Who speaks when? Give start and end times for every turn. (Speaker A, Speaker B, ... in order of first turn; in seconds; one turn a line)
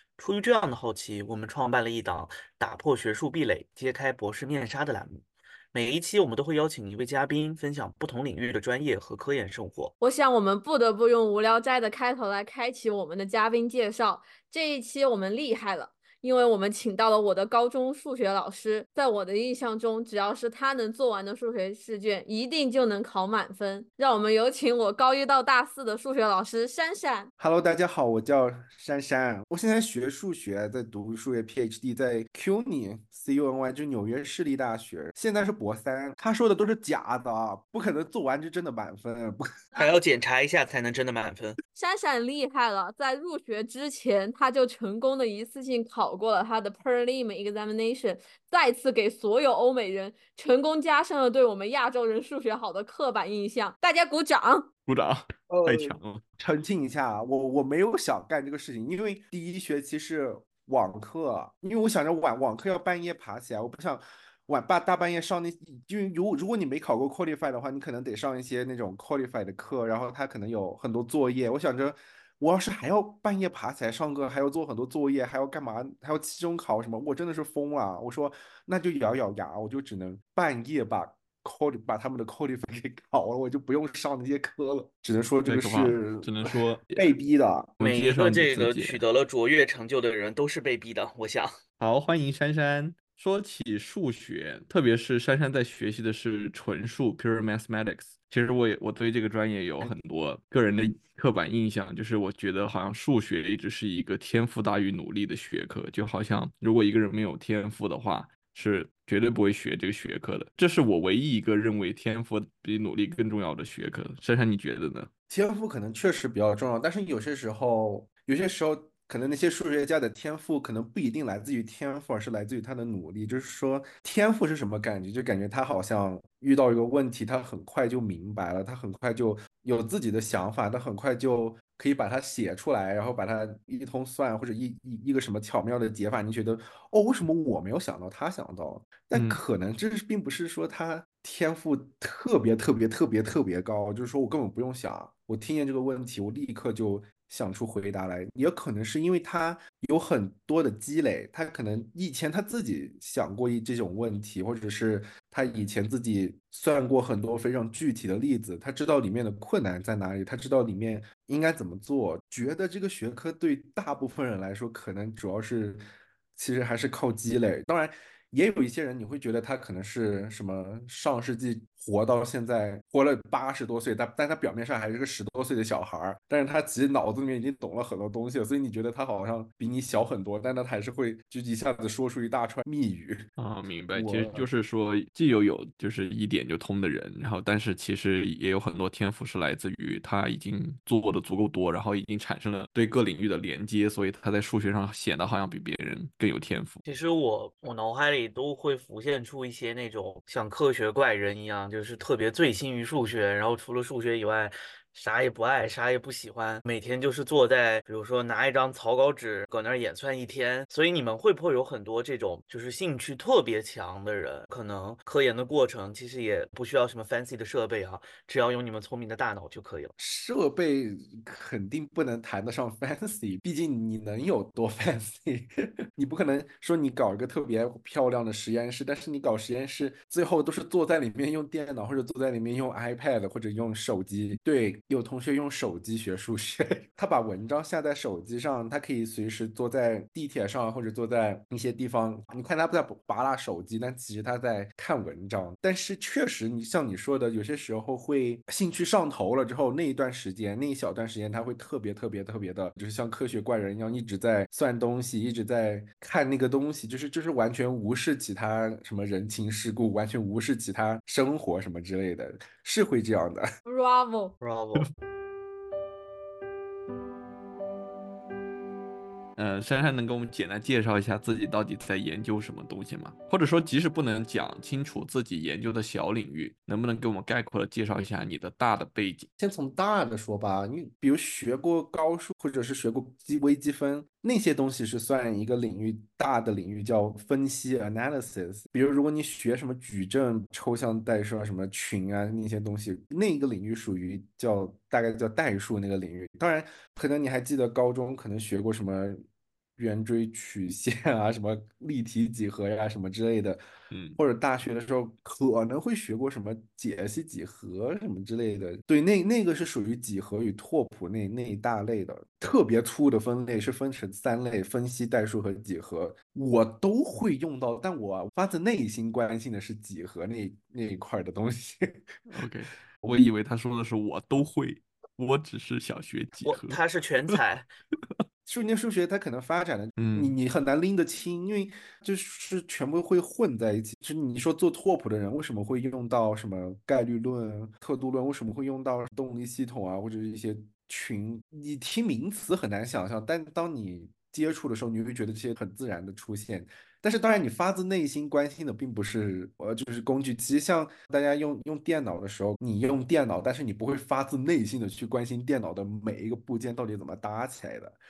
Speaker A: 0.2-9.9
Speaker B: 10.0-27.3
Speaker C: 27.4-39.6
Speaker A: 39.7-41.6
Speaker B: 41.7-54.6
Speaker D: 54.9-56.2
Speaker C: 55.5-87.8
Speaker D: 85.5-87.1
Speaker D: 87.8-89.0
Speaker A: 87.8-91.5
Speaker D: 91.8-115.1
Speaker C: 115.3-165.8
Speaker D: 139.1-139.4
Speaker C: 166.4-183.2
Speaker D: 183.4-196.8
Speaker C: 183.9-184.5
Speaker A: 196.8-219.9
Speaker C: 220.0-263.4
Speaker B: 263.6-264.3
Speaker A: 264.4-264.9
Speaker D: 269.4-279.3
Speaker C: 279.4-299.2
Speaker C: 299.8-303.6
Speaker D: 303.9-304.2
Speaker C: 304.2-322.1
Speaker D: 322.3-326.8
Speaker A: 326.4-327.7
Speaker D: 327.9-328.2
Speaker C: 328.4-358.0
Speaker D: 330.0-330.3